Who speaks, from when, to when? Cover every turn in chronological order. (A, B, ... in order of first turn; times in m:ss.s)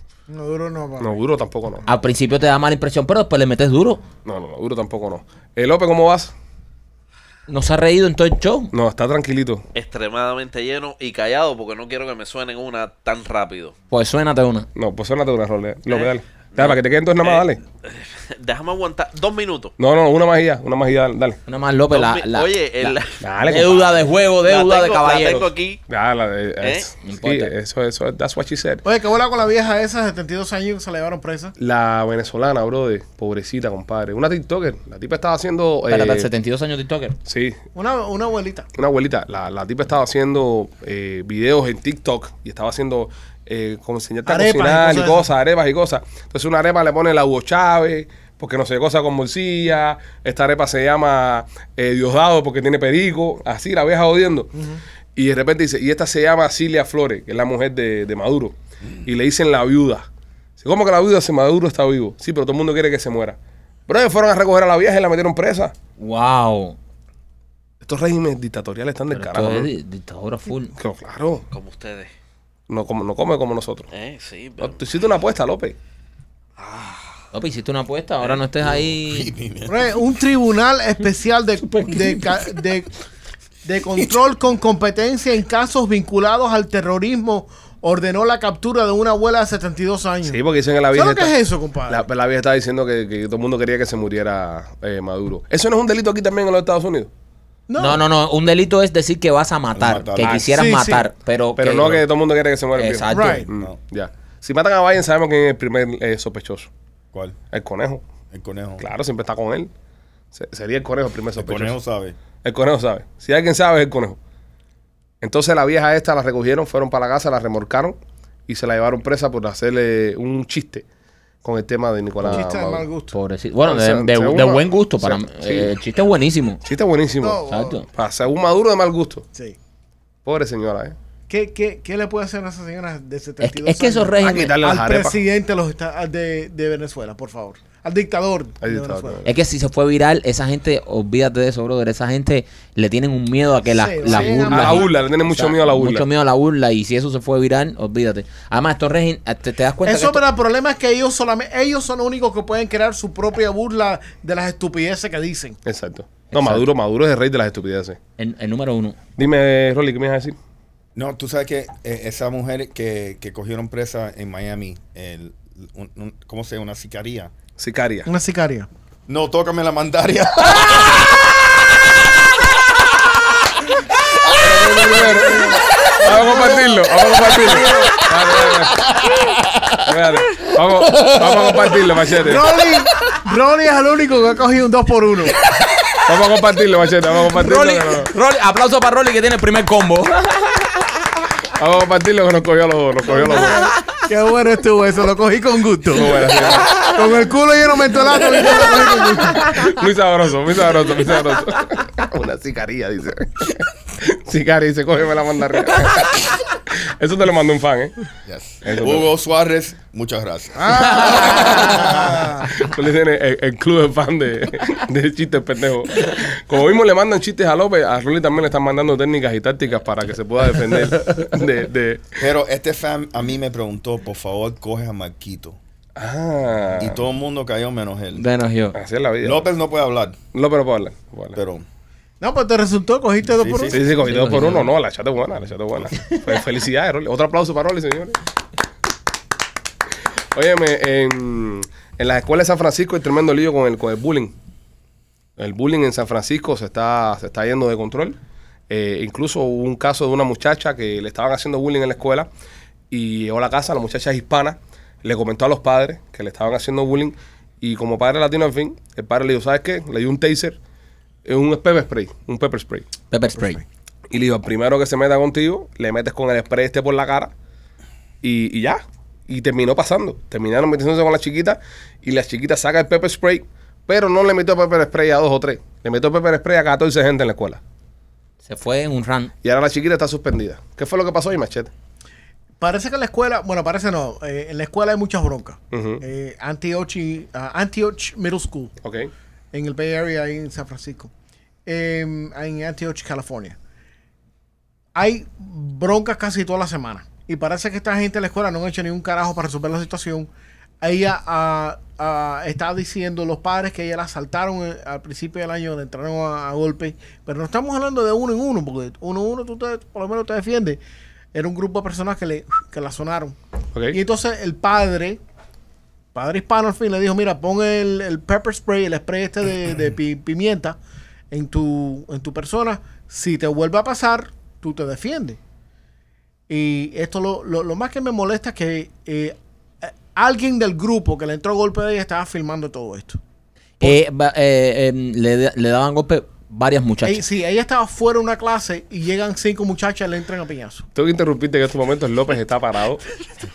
0:00.3-0:01.2 A
0:01.0-0:01.8 B
0:01.9-0:04.0 C
0:04.2-0:06.3 B
0:07.5-0:08.7 C
0:08.7-0:09.6 B
0:09.7-0:13.8 D
0:13.9-0:14.7 C
0:14.8-0:17.6 B
0:15.9-0:19.7 D
0:19.8-0:21.4 B
0:21.5-0:25.5 C
0:21.9-0:23.2 D
0:23.2-0:23.9 B
0:24.4-0:25.8 D
0:25.9-0:28.8 B
0:26.6-0:26.9 D
0:27.0-0:27.5 C
0:28.8-0:31.6 A
0:31.6-0:36.3 B
0:35.9-0:37.2 C
0:37.3-0:37.6 B
0:37.8-0:38.7 A
0:38.8-0:54.5 B
0:44.3-0:45.3 A
0:54.6-0:54.8 A
0:55.2-1:00.1 B
1:00.6-1:05.7 B
1:06.0-1:06.8 C
1:07.8-1:09.7 B
1:09.1-1:10.7 C
1:10.8-1:11.4 B
1:11.5-1:12.1 D
1:12.7-1:13.9 B
1:13.9-1:14.8 D
1:14.6-1:15.8 B
1:16.6-1:17.1 D
1:17.3-1:19.3 C
1:18.6-1:20.0 E
1:19.7-1:22.9 A
1:21.6-1:22.4 C
1:23.6-1:32.1 A
1:30.2-1:31.4 B
1:31.9-1:37.1 B
1:37.7-1:38.0 A
1:37.8-1:42.0 C
1:39.7-1:40.5 E
1:40.4-1:41.1 A
1:41.6-1:46.7 B
1:42.8-1:43.5 C
1:43.1-1:43.5 A
1:47.5-1:48.0 B
1:48.3-1:48.8 E
1:48.8-1:49.7 B
1:50.3-1:51.8 B
1:51.4-1:52.2 E
1:52.4-1:54.2 B
1:55.2-2:00.8 B
2:01.4-2:02.9 B
2:02.2-2:03.2 A
2:03.1-2:06.6 C
2:03.6-2:05.7 B
2:06.6-2:09.3 B
2:07.2-2:07.8 A
2:07.5-2:07.9 C
2:10.2-2:11.0 B
2:11.3-2:19.3 A
2:13.4-2:14.6 C
2:14.2-2:15.2 B
2:18.6-2:19.3 B
2:19.2-2:30.2 C
2:23.7-2:24.9 A
2:24.1-2:26.1 B
2:29.8-2:35.6 A
2:35.6-2:38.0 B
2:36.3-2:36.6 C
2:38.2-2:39.0 C
2:39.2-2:40.4 B
2:41.0-2:47.3 E
2:47.6-2:48.1 B
2:48.1-2:48.7 A
2:49.1-2:51.1 E
2:54.1-2:54.7 E
2:54.4-2:59.0 B
2:54.8-2:58.1 A
2:58.9-2:59.8 E
2:59.8-3:02.6 B
3:02.2-3:05.4 A
3:06.1-3:08.1 B
3:07.2-3:10.8 C
3:11.6-3:13.7 B
3:13.1-3:19.7 A
3:15.9-3:16.9 B
3:19.4-3:28.0 B
3:28.3-3:31.8 E
3:28.6-3:29.1 B
3:30.6-3:32.5 A
3:31.2-3:42.2 B
3:42.2-3:45.6 E
3:46.0-3:47.0 B
3:46.8-3:48.3 E
3:48.2-3:48.8 C
3:48.7-3:49.5 B
3:49.2-3:50.2 E
3:50.3-3:51.4 B
3:51.4-3:51.6 E
3:52.2-3:53.8 A
3:53.3-3:53.8 E
3:53.7-3:58.2 B
3:54.0-3:54.7 C
4:00.3-4:04.3 B
4:05.4-4:08.2 B
4:08.7-4:12.3 B
4:12.9-4:20.6 B
4:21.2-4:22.9 B
4:23.1-4:23.6 C
4:24.1-4:27.3 B
4:28.2-4:37.6 B
4:38.4-4:39.3 C
4:39.4-4:41.7 B
4:42.6-4:48.7 A
4:45.7-4:46.0 B
4:48.8-4:49.1 B
4:49.5-4:51.1 A
4:51.7-4:53.6 A
4:55.0-5:00.3 A
5:00.8-5:10.8 A
5:11.3-5:13.4 A
5:13.7-5:14.0 B
5:13.9-5:15.2 A
5:16.2-5:20.8 A
5:21.3-5:25.4 A
5:26.5-5:33.2 A
5:33.8-5:37.2 C
5:37.0-5:40.9 A
5:41.0-5:43.0 B